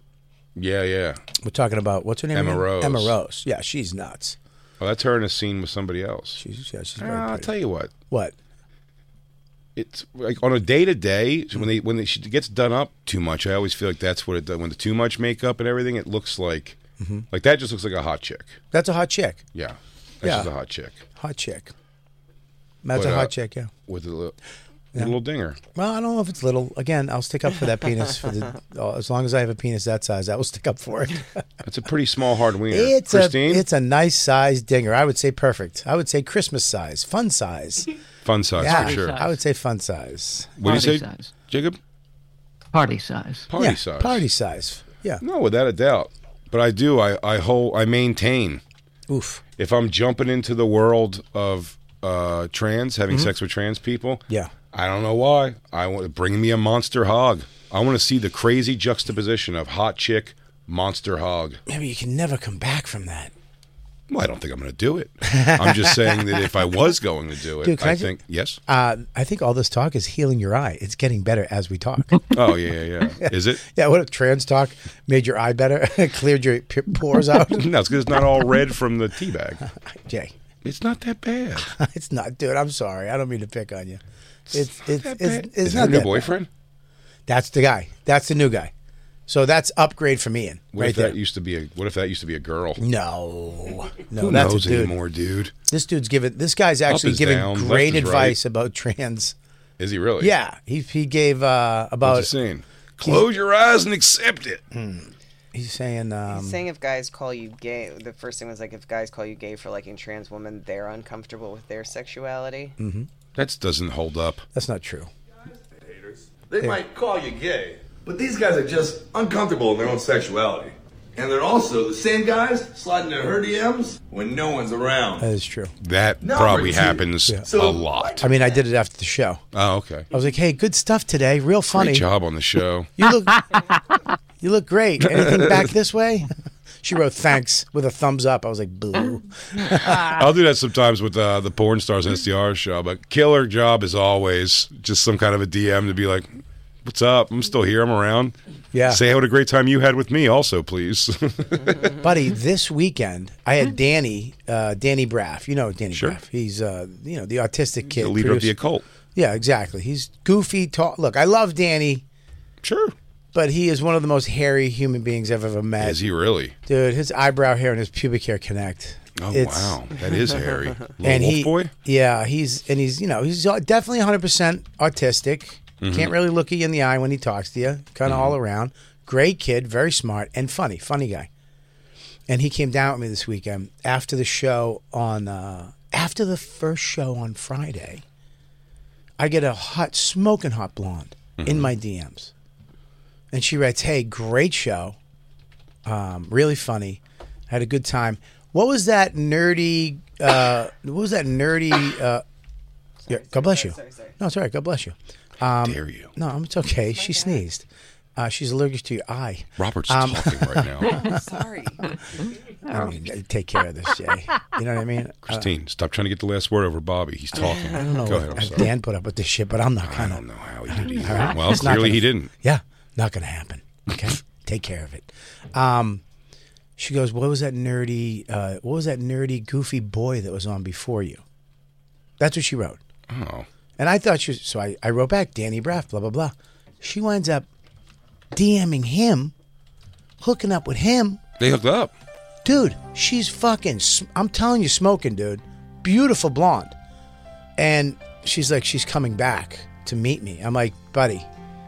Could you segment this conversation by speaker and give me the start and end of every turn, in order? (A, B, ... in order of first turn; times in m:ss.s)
0:00.6-0:01.2 A
0:01.4-0:04.4 B
0:02.3-0:03.2 A
0:04.8-0:06.4 A
0:06.4-0:07.5 B
0:07.0-0:07.9 A
0:08.1-0:08.4 B
0:09.8-0:16.8 A
0:17.0-0:17.3 B
0:17.3-0:18.6 A
0:18.7-0:19.4 B
0:19.5-0:21.0 A
0:20.2-0:20.5 B
0:21.2-0:21.7 B
0:22.8-0:23.7 B
0:22.9-0:23.3 A
0:23.9-0:24.4 A
0:24.9-0:25.6 A
0:25.8-0:31.3 B
0:31.6-0:33.6 A
0:32.7-0:37.9 B
0:38.2-0:39.2 A
0:38.6-0:40.6 B
0:38.7-0:39.2 C
0:40.6-0:41.8 A
0:40.6-0:41.3 C
0:42.7-0:43.5 C
0:43.5-0:44.2 A
0:43.6-0:45.2 B
0:45.2-0:48.6 A
0:49.1-0:49.4 B
0:49.6-1:01.6 A
1:01.7-1:03.3 B
1:04.1-1:08.6 A
1:05.3-1:06.5 B
1:07.6-1:08.2 B
1:08.7-1:12.3 B
1:12.3-1:13.6 A
1:13.2-1:17.7 B
1:17.5-1:19.6 A
1:19.9-1:20.3 B
1:20.6-1:21.7 A
1:21.6-1:24.0 B
1:24.5-1:26.5 A
1:24.5-1:26.3 B
1:27.3-1:28.7 B
1:29.3-1:31.2 B
1:30.7-1:32.8 A
1:32.8-1:34.9 B
1:34.2-1:35.5 A
1:35.7-1:39.4 B
1:36.9-1:38.4 A
1:39.8-1:40.3 A
1:40.2-1:42.3 B
1:42.0-1:44.6 A
1:44.7-1:46.6 B
1:46.3-1:52.8 D
1:52.8-1:53.1 B
1:53.4-1:54.4 A
1:54.5-1:55.1 B
1:55.8-2:05.3 E
2:05.2-2:05.7 B
2:05.8-2:08.3 A
2:06.2-2:08.3 E
2:08.2-2:09.4 B
2:09.5-2:10.1 A
2:10.1-2:12.0 B
2:11.7-2:12.9 A
2:13.0-2:13.4 B
2:14.4-2:16.3 B
2:15.1-2:15.7 A
2:16.8-2:20.2 B
2:19.7-2:26.3 A
2:26.8-2:28.4 A
2:28.7-2:29.0 B
2:28.9-2:31.9 A
2:32.0-2:38.5 B
2:35.9-2:36.2 A
2:37.9-2:38.8 A
2:39.2-2:42.0 B
2:42.6-2:43.0 A
2:43.3-2:46.0 B
2:45.8-2:46.6 A
2:46.7-2:49.8 B
2:49.2-2:51.7 A
2:51.0-3:01.3 B
2:55.8-2:56.2 A
2:58.0-2:58.4 A
3:02.3-3:08.0 B
3:09.2-3:12.3 B
3:11.4-3:11.7 A
3:13.3-3:15.0 B
3:15.9-3:22.2 B
3:23.0-3:24.2 D
3:23.1-3:27.6 B
3:25.6-3:26.1 A
3:26.9-3:27.4 D
3:28.2-3:31.2 B
3:29.6-3:30.9 A
3:30.9-3:31.9 D
3:32.7-3:35.5 B
3:35.2-3:38.7 A
3:37.5-3:37.8 D
3:37.5-3:46.0 B
3:39.8-3:42.3 A
3:46.8-3:51.2 B
3:52.2-3:52.8 B
3:53.1-3:53.5 A
3:53.8-3:57.5 B
3:58.3-3:59.3 B
4:00.2-4:01.2 B
4:01.4-4:01.9 A
4:02.4-4:06.8 B
4:07.6-4:11.3 B